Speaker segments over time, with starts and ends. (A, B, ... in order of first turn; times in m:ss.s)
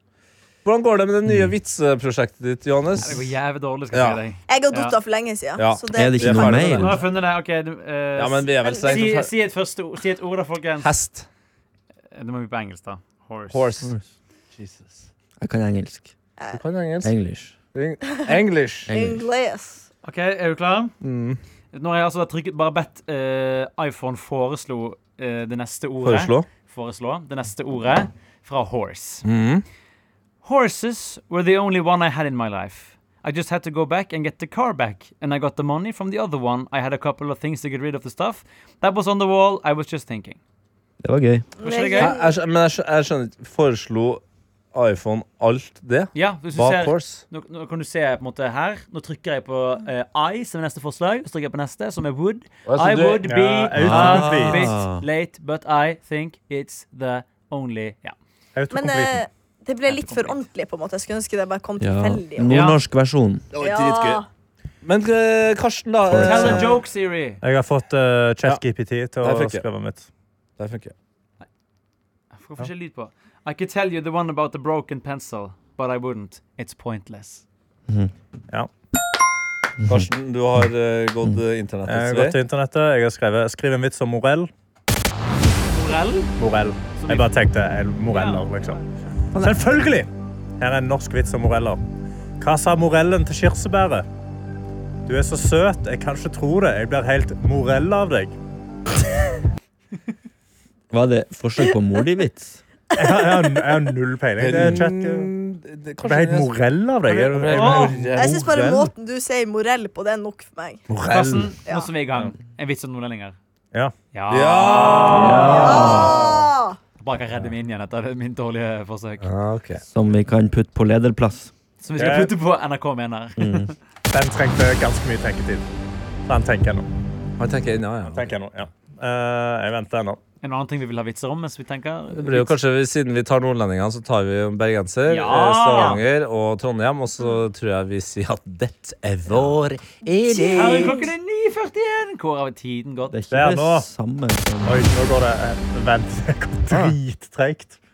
0:00.6-0:03.3 A
0:01.2-0:01.5 B
0:03.0-0:05.0 C
0:03.9-0:04.2 A
0:04.5-0:06.8 D
0:05.6-0:07.0 A
0:05.9-0:07.0 B
0:06.8-0:10.9 C
0:08.2-0:09.3 A
0:10.8-0:11.3 A
0:12.1-0:13.9 C
0:13.5-0:13.9 A
0:14.6-0:14.9 A
0:15.4-0:16.1 B
0:16.5-0:17.1 A
0:17.0-0:17.5 B
0:17.7-0:18.9 A
0:18.9-0:19.2 B
0:18.9-0:19.9 D
0:20.0-0:20.9 C
0:21.0-0:21.4 A
0:21.7-0:29.2 C
0:26.0-0:26.5 A
0:29.2-0:29.6 A
0:30.4-0:40.4 C
0:41.0-0:41.5 B
0:41.6-0:42.3 D
0:41.6-0:42.1 C
0:42.0-0:44.2 A
0:44.7-0:47.2 A
0:46.1-0:58.2 C
0:52.6-0:53.3 A
0:53.2-0:54.7 E
0:53.8-0:55.0 B
0:58.5-0:59.2 E
0:58.7-1:02.6 D
0:59.9-1:00.4 C
1:01.8-1:03.4 B
1:02.5-1:02.8 C
1:03.5-1:04.2 A
1:03.6-1:04.2 D
1:04.8-1:06.7 A
1:06.1-1:06.7 B
1:06.1-1:07.4 C
1:07.4-1:10.1 E
1:09.2-1:09.6 A
1:10.6-1:10.9 A
1:12.3-1:17.4 C
1:19.8-1:20.1 B
1:19.8-1:22.4 A
1:21.9-1:24.5 E
1:25.6-1:26.3 C
1:26.4-1:28.8 E
1:26.9-1:27.3 C
1:28.1-1:28.8 C
1:29.3-1:29.7 B
1:29.4-1:31.8 E
1:32.4-1:34.0 E
1:35.1-1:38.3 E
1:40.9-1:42.6 B
1:43.0-1:45.3 E
1:44.4-1:48.4 A
1:46.0-1:48.9 E
1:47.5-1:48.0 C
1:48.1-1:50.8 D
1:50.9-1:51.4 E
1:50.9-1:51.5 A
1:51.1-1:53.4 C
1:54.1-1:56.1 C
1:54.3-1:56.1 A
1:54.8-1:56.0 E
1:55.1-1:56.2 B
1:55.6-1:56.8 D
1:57.0-1:59.2 C
1:59.2-1:59.8 A
1:59.8-2:01.5 B
2:01.8-2:03.7 C
2:02.0-2:02.3 E
2:03.4-2:03.7 B
2:04.1-2:05.7 E
2:06.3-2:06.9 E
2:07.4-2:08.3 A
2:08.1-2:10.2 E
2:10.4-2:12.5 C
2:12.1-2:20.9 A
2:15.0-2:16.0 C
2:20.0-2:21.0 D
2:20.5-2:23.2 C
2:23.1-2:24.8 B
2:23.3-2:23.9 E
2:24.6-2:27.8 E